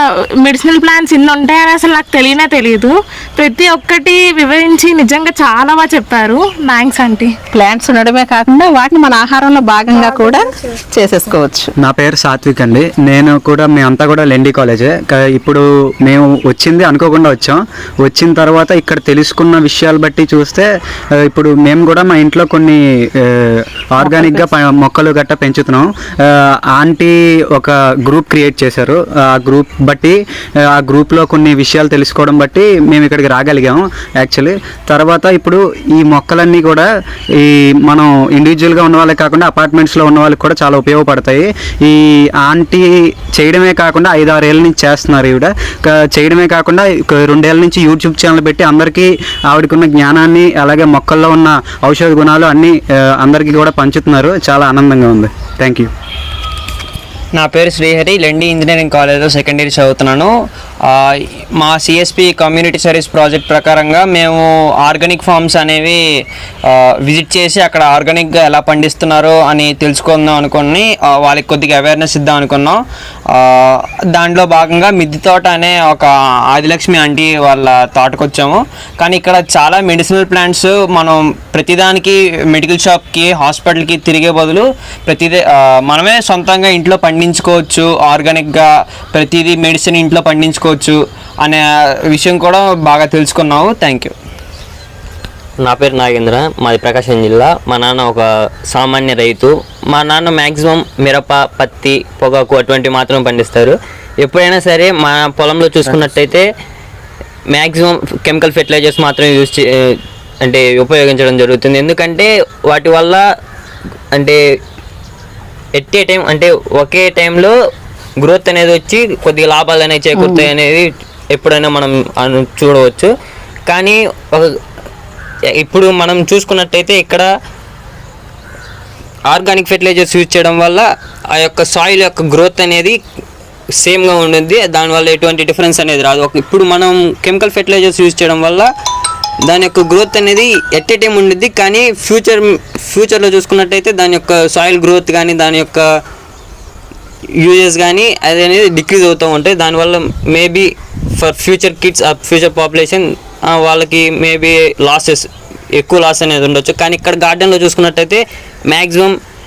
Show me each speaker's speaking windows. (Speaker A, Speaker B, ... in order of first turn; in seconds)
Speaker A: 0.4-7.3
Speaker B: 7.5-11.7, 24.0-24.5, 120.2-120.5
Speaker C: 11.8-36.9, 37.4-55.9
Speaker D: 57.4-60.3, 60.8-66.0, 66.7-94.1
Speaker E: 95.6-106.5, 107.5-113.2, 114.1-114.4, 115.8-117.5, 118.2-123.1, 123.7-124.6, 125.6-127.3, 129.3-133.0, 133.8-138.7, 139.5-145.9, 147.4-159.2